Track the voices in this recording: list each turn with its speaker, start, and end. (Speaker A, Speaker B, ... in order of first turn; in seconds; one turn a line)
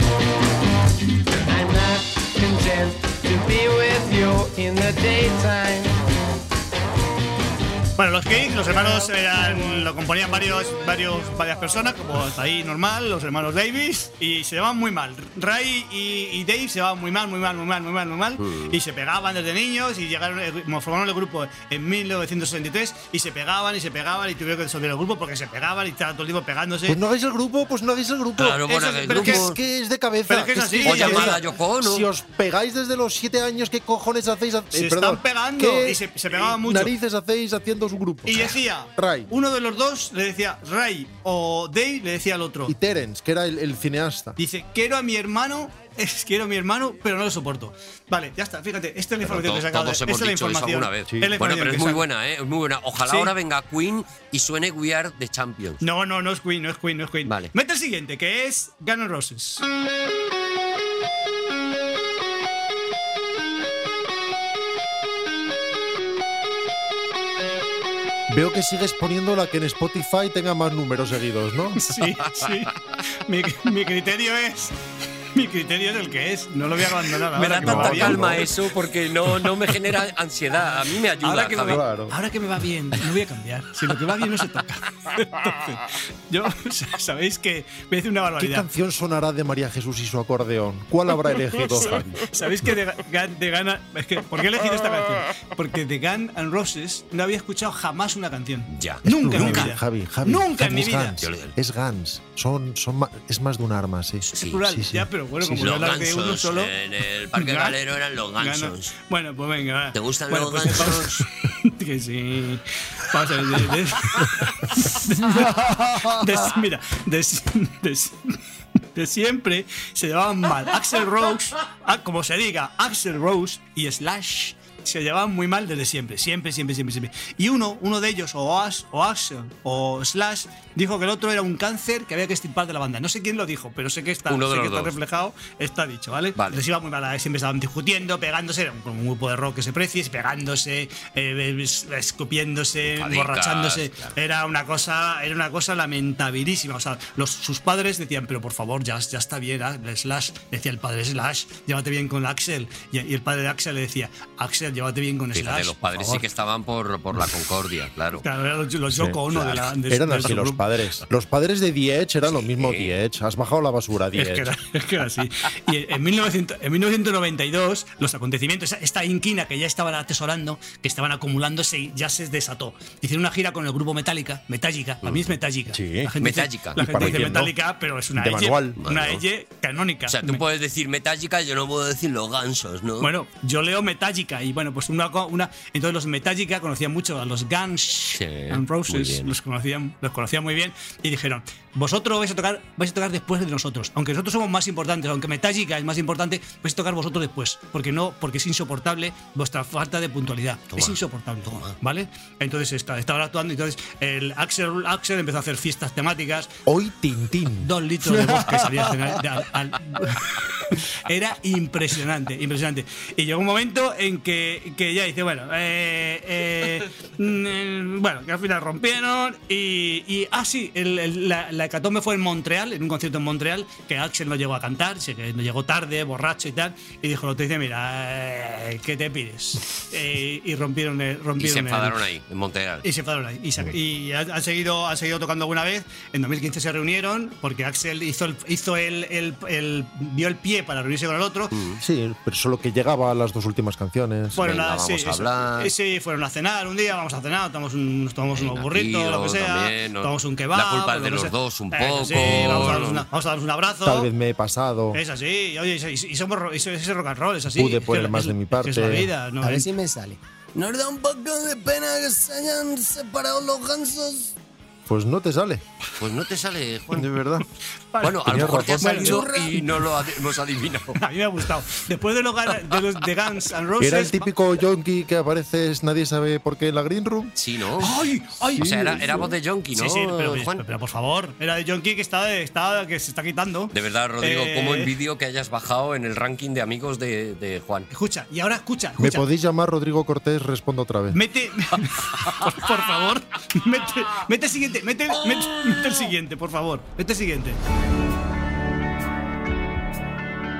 Speaker A: 1.5-6.0
Speaker B: 8.0-27.0
Speaker C: 18.4-18.8
Speaker D: 26.9-39.3
Speaker C: 28.4-29.6
Speaker B: 28.6-29.5
Speaker B: 30.3-31.4
Speaker C: 30.5-32.1
Speaker B: 34.7-36.9
Speaker B: 38.2-42.7
Speaker D: 42.6-44.4
Speaker B: 44.4-52.0
Speaker C: 49.2-55.8
Speaker D: 51.1-51.4
Speaker B: 53.0-53.3
Speaker B: 55.8-59.6
Speaker C: 57.2-57.5
Speaker D: 68.3-71.9
Speaker B: 71.8-74.7
Speaker B: 75.3-78.4
Speaker C: 77.3-81.8
Speaker D: 77.6-78.5
Speaker B: 81.2-88.7
Speaker D: 81.6-82.2
Speaker D: 88.4-92.2
Speaker B: 92.3-101.2
Speaker C: 98.7-99.7
Speaker D: 99.0-105.8
Speaker C: 101.2-101.5
Speaker C: 104.2-104.6
Speaker B: 104.4-106.7
Speaker C: 105.6-108.9
Speaker B: 107.3-107.8
Speaker B: 108.4-118.4
Speaker C: 109.9-111.3
Speaker B: 118.9-156.2
Speaker C: 134.3-134.9
Speaker C: 136.3-136.6
Speaker C: 142.8-144.2
Speaker C: 155.3-158.2
Speaker B: 158.2-160.6
Speaker D: 158.9-159.4
Speaker C: 159.3-159.6
Speaker D: 159.9-164.5
Speaker C: 162.3-162.9
Speaker B: 164.1-180.4
Speaker C: 175.0-175.3
Speaker D: 175.7-176.2
Speaker C: 176.2-177.3
Speaker D: 176.8-177.5
Speaker D: 178.1-178.8
Speaker C: 178.8-179.2
Speaker C: 180.1-183.1
Speaker B: 183.0-206.5
Speaker C: 188.1-189.3
Speaker C: 200.7-201.7
Speaker D: 206.7-208.9
Speaker B: 207.6-232.0
Speaker C: 231.4-232.8
Speaker B: 232.8-241.6
Speaker C: 241.5-241.8
Speaker D: 241.8-244.5
Speaker B: 244.3-254.1
Speaker C: 244.4-245.7
Speaker C: 248.3-253.0
Speaker D: 252.4-252.7
Speaker D: 253.8-255.0
Speaker B: 254.9-259.7
Speaker D: 257.5-259.1
Speaker E: 259.4-264.3
Speaker D: 264.9-265.6
Speaker C: 266.0-267.1
Speaker D: 266.9-267.4
Speaker B: 267.9-269.6
Speaker C: 268.0-271.0
Speaker D: 268.2-269.2
Speaker B: 271.0-274.3
Speaker D: 273.8-277.3
Speaker C: 277.4-277.9
Speaker B: 277.8-279.2
Speaker D: 278.4-279.3
Speaker C: 278.5-280.6
Speaker B: 279.7-284.9
Speaker C: 283.7-287.9
Speaker B: 287.9-289.3
Speaker D: 289.0-291.2
Speaker B: 291.1-297.6